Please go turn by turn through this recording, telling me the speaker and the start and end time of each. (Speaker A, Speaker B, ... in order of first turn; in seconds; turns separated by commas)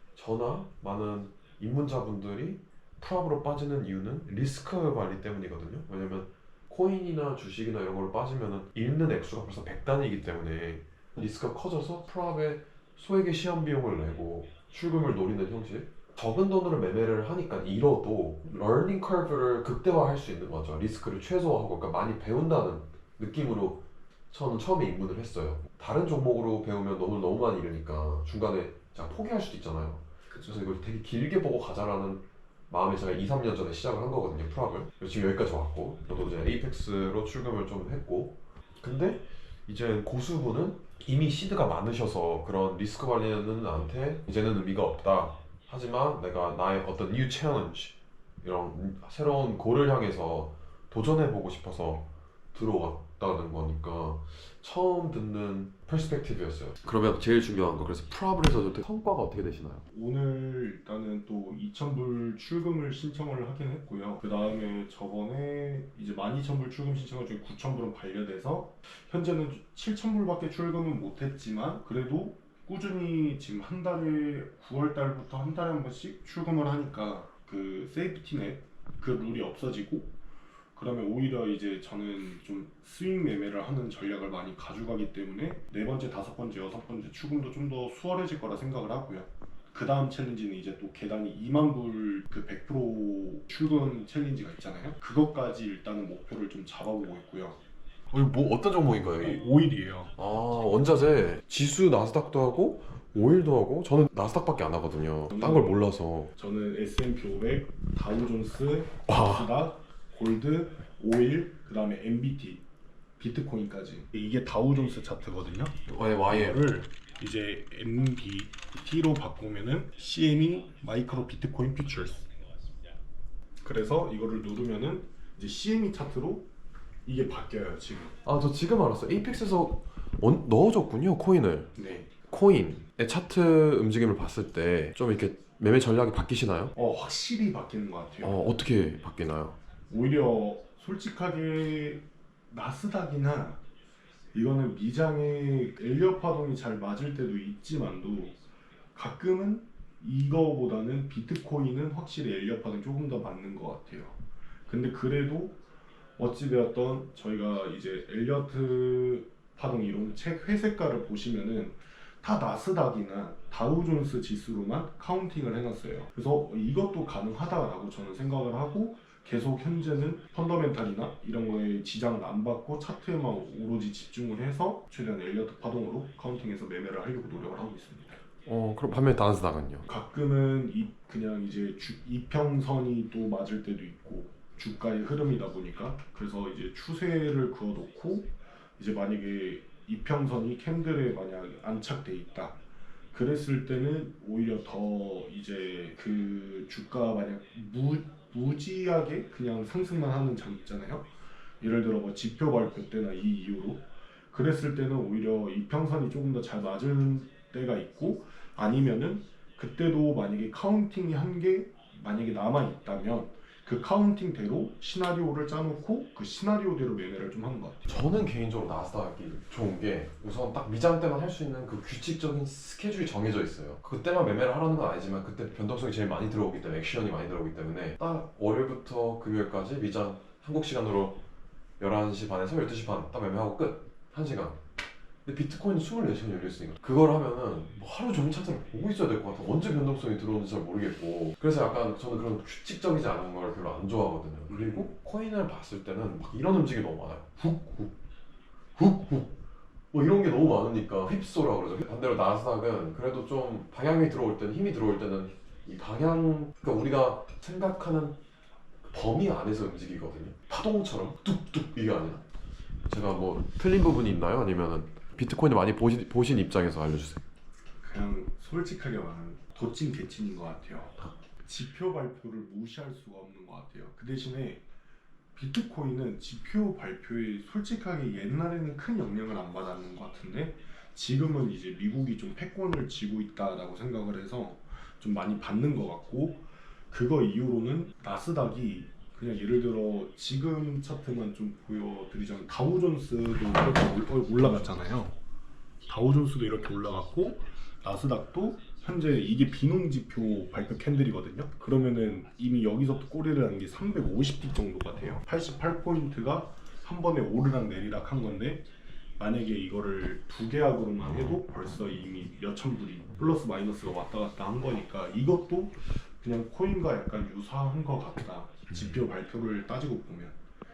Speaker A: 0.1-59.8, Speaker B: 30.3-30.6, Speaker B: 59.9-80.2, Speaker B: 80.8-97.6, Speaker A: 98.1-99.4, Speaker B: 99.2-100.1, Speaker A: 100.2-106.3, Speaker B: 105.3-105.8, Speaker B: 106.3-112.6, Speaker A: 109.1-109.5, Speaker B: 113.2-115.8, Speaker A: 115.8-116.6, Speaker B: 116.3-122.2, Speaker B: 123.6-126.5, Speaker B: 127.0-128.1, Speaker A: 128.2-131.7, Speaker B: 131.8-132.1, Speaker A: 132.3-136.7, Speaker B: 136.8-138.4, Speaker A: 138.2-139.6, Speaker B: 139.9-143.6, Speaker B: 144.3-148.4, Speaker B: 148.9-154.2, Speaker B: 154.7-155.6, Speaker B: 156.2-178.2, Speaker A: 178.4-179.9, Speaker B: 179.8-192.6, Speaker B: 193.1-201.1, Speaker B: 201.6-217.9, Speaker A: 217.9-231.2, Speaker A: 231.8-234.6, Speaker A: 235.2-247.4, Speaker B: 244.5-244.9, Speaker B: 247.4-247.9, Speaker A: 248.8-249.4, Speaker A: 249.9-258.2, Speaker A: 258.9-262.2, Speaker A: 262.9-267.2, Speaker B: 267.8-274.6, Speaker B: 275.4-295.1, Speaker B: 295.9-320.4